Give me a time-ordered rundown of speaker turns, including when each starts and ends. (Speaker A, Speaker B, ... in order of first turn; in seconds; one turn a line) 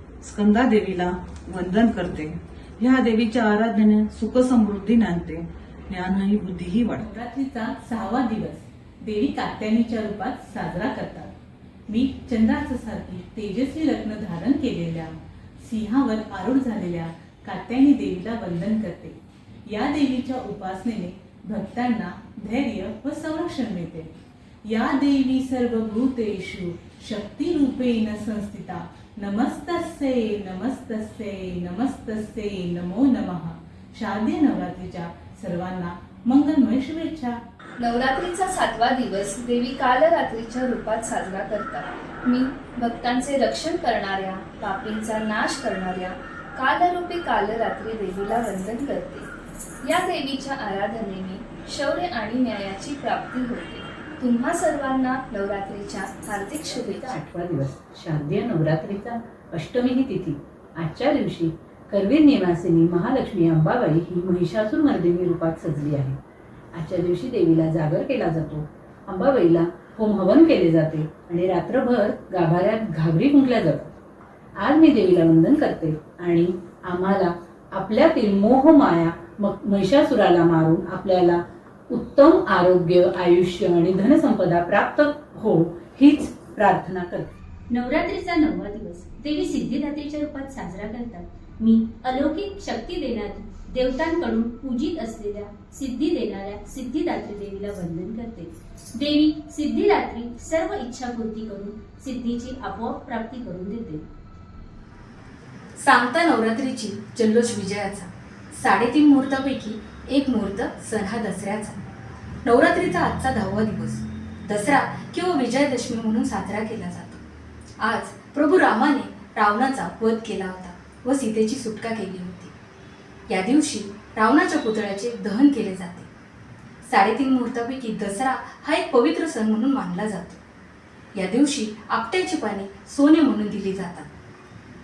Speaker A: 0.2-7.0
Speaker B: 6.9-11.3
Speaker B: 11.9-24.1
Speaker B: 24.6-37.4
Speaker C: 37.8-49.3
Speaker C: 49.9-57.2
Speaker D: 56.6-66.2
Speaker D: 66.7-73.9
Speaker D: 74.6-87.3
Speaker E: 87.7-104.0
Speaker F: 105.8-111.8
Speaker F: 112.4-117.2
Speaker F: 117.8-122.5
Speaker F: 123.3-126.1
Speaker F: 126.8-130.4
Speaker F: 131.2-134.1